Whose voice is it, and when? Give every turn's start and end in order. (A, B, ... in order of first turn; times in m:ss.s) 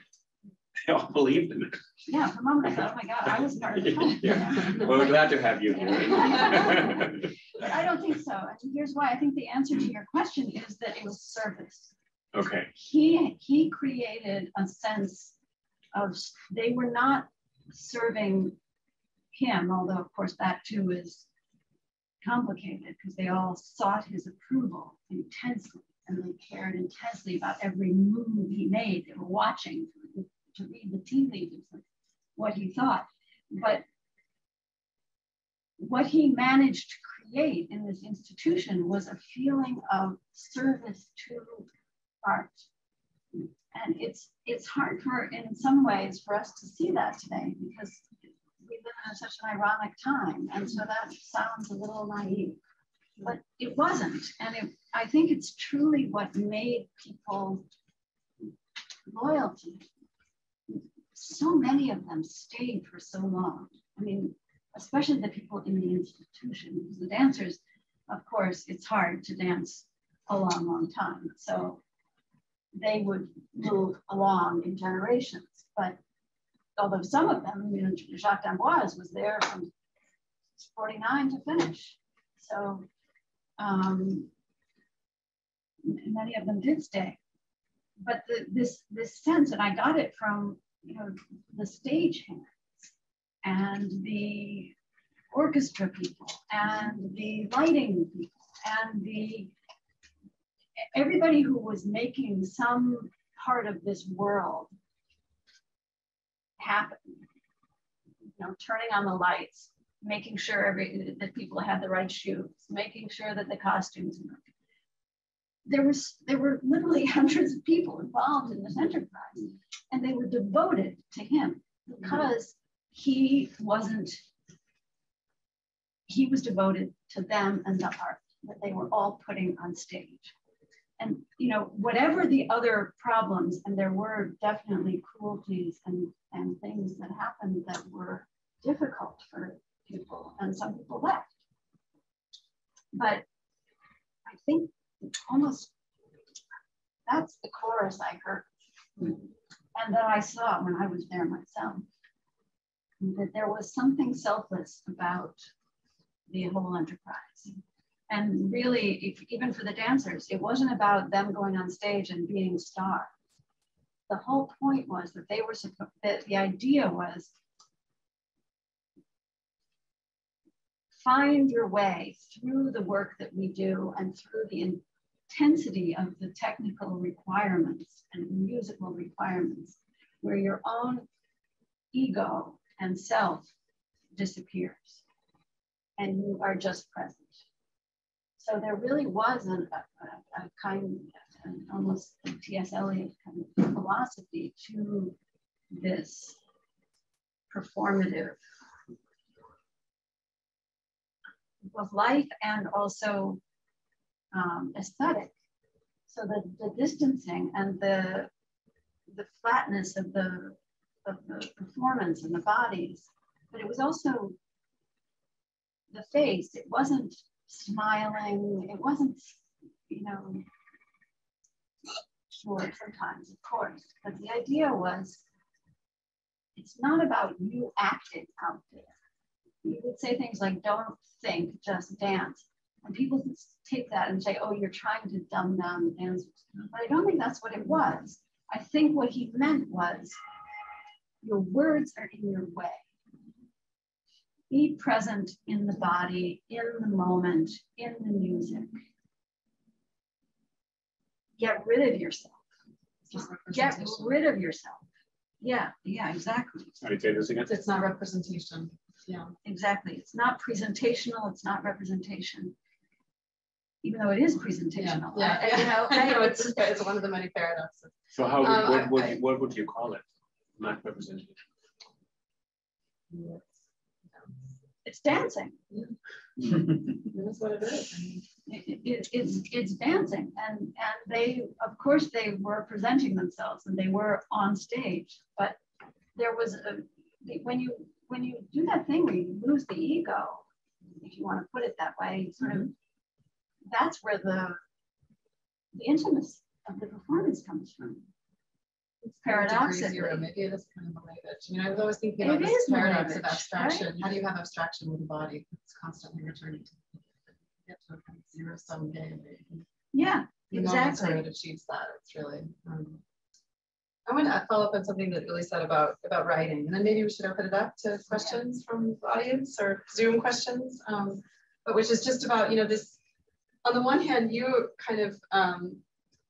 0:00.9-0:01.8 A
0:02.1-0:11.9 B
0:03.9-0:07.6 A
0:12.3-0:12.7 A
0:12.8-0:15.4 B
0:15.9-0:18.6 B
0:19.3-0:21.3 B
0:22.2-0:31.8 B
0:32.4-0:33.8 B
0:35.8-0:41.7 B
0:42.2-0:42.7 B
0:43.7-0:48.1 B
0:48.6-0:52.6 B
0:53.2-0:57.7 B
0:59.1-0:59.8 B
1:00.7-1:11.8 B
1:12.7-1:16.0 B
1:16.8-1:19.7 B
1:20.6-1:22.9 B
1:23.6-1:24.3 B
1:25.8-1:27.2 B
1:28.0-1:32.9 B
1:33.4-1:34.8 B
1:35.3-1:39.6 B
1:40.9-1:44.7 B
1:46.6-1:47.2 B
1:48.4-1:54.5 B
1:55.7-2:04.2 B
2:06.1-2:10.3 B
2:11.0-2:21.3 B
2:22.9-2:23.2 B
2:24.3-2:25.7 B
2:27.1-2:28.5 B
2:29.8-2:31.9 B
2:33.0-2:35.4 B
2:36.3-2:37.5 B
2:38.1-2:43.1 B
2:44.1-2:47.3 B
2:50.9-3:01.1 B
3:01.9-3:03.5 B
3:04.2-3:05.0 B
3:06.0-3:07.4 B
3:08.4-3:15.2 B
3:15.7-3:16.4 B
3:17.5-3:18.4 B
3:21.7-3:23.4 B
3:24.3-3:25.3 B
3:26.1-3:28.3 B
3:29.1-3:34.4 B
3:35.9-3:40.4 B
3:42.4-3:45.2 B
3:46.6-3:48.9 B
3:49.6-4:00.2 B
4:01.2-4:02.9 B
4:04.5-4:08.8 B
4:11.4-4:12.4 B
4:13.0-4:14.2 C
4:13.2-4:14.8 B
4:15.4-4:16.8 B
4:16.8-4:17.5 A
4:17.5-4:19.3 C
4:19.4-4:22.6 B
4:23.8-4:26.7 B
4:24.8-4:29.1 C
4:28.1-4:30.0 A
4:30.6-4:31.4 A
4:33.1-4:33.5 C
4:34.8-4:35.6 B
4:35.7-4:38.2 C
4:38.5-4:45.6 B
4:46.2-4:50.4 B
4:51.0-4:52.7 B
4:53.7-4:54.6 B
4:55.7-4:58.1 B
4:59.0-5:06.8 C
4:59.2-5:00.3 B
5:02.2-5:04.0 B
5:07.6-5:09.6 C
5:09.9-5:11.3 B
5:10.5-5:13.0 C
5:14.1-5:23.0 C
5:23.6-5:25.8 C